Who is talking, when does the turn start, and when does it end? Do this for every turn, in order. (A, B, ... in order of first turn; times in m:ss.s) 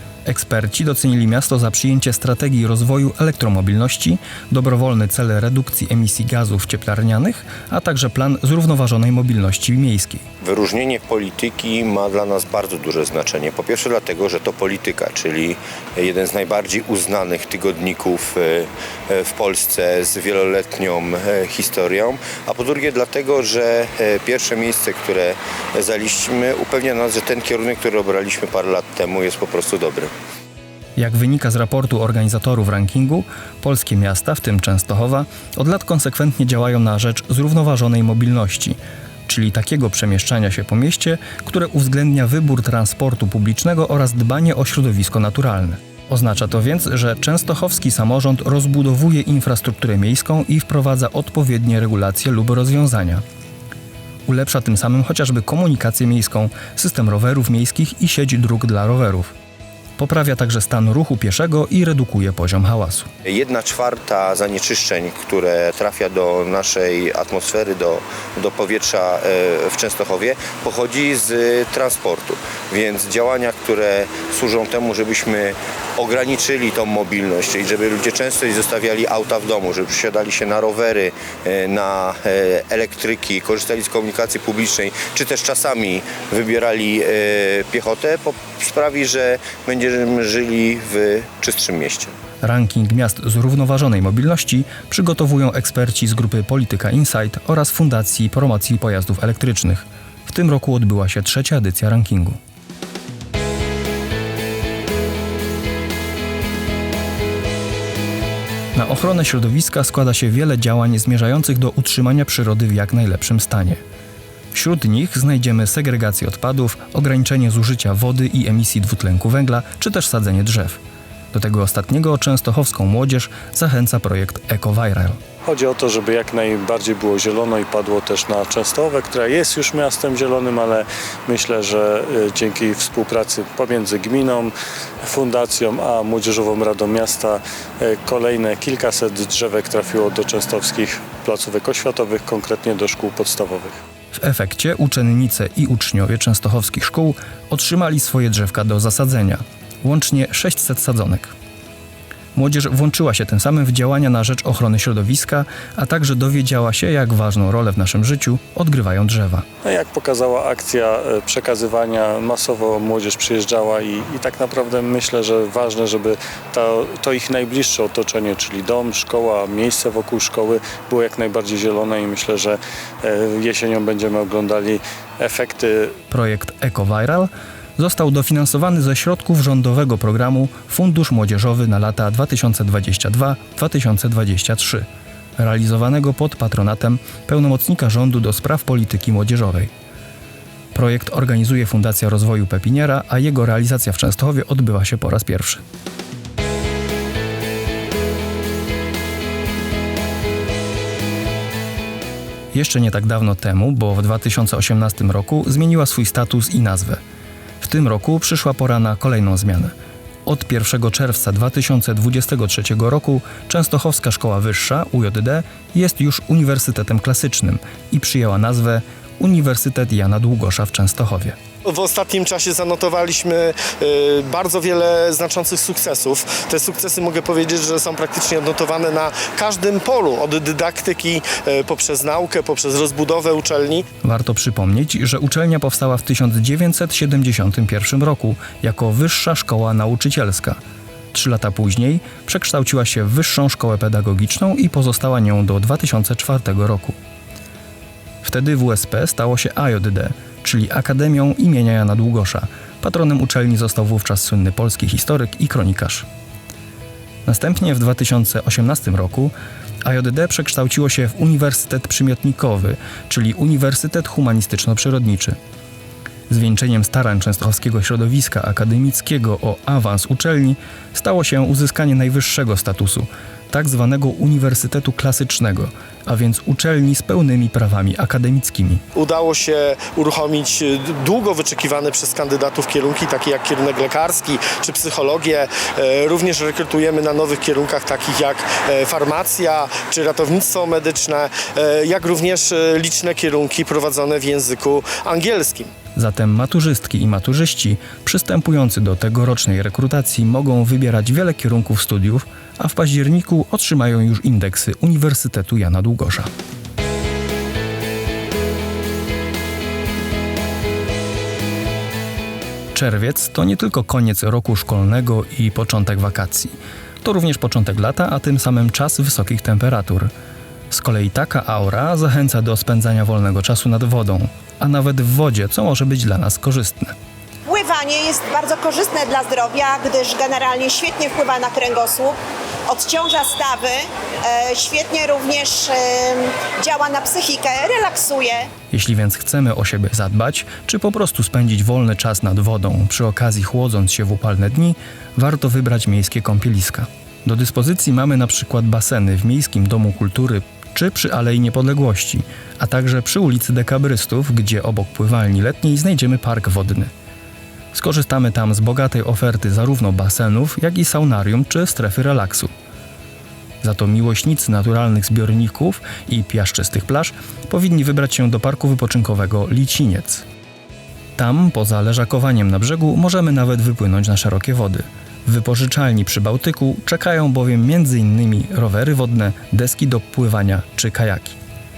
0:00.3-0:10.2 A
0:10.4-0:30.1 B
0:31.0-0:53.2 A
0:54.3-0:59.3 A
1:00.0-1:03.1 A
1:03.2-1:32.2 B
1:32.4-1:42.4 A
1:48.8-1:53.8 A
1:54.5-2:00.8 A
2:01.3-2:05.2 A
2:05.4-2:23.8 C
2:24.2-2:31.3 A
2:32.4-2:39.4 A
2:39.6-2:55.9 C
2:56.1-3:04.9 A
3:05.4-3:09.7 A
3:10.7-3:15.6 A
3:22.5-3:27.0 A
3:27.6-3:29.7 A
3:30.3-3:41.4 A
3:41.7-3:53.8 D
3:54.0-4:00.6 A
4:01.1-4:07.0 A
4:08.2-4:16.1 A
4:17.3-4:25.4 A
4:26.3-4:38.8 A
4:39.0-4:55.7 D
4:56.0-5:06.3 A
5:12.7-5:20.1 A
5:20.7-5:26.9 A
5:27.5-5:32.2 E
5:32.7-5:38.5 E
5:38.7-5:56.9 A
5:57.7-6:02.5 A
6:03.6-6:10.2 A
6:11.2-6:21.4 A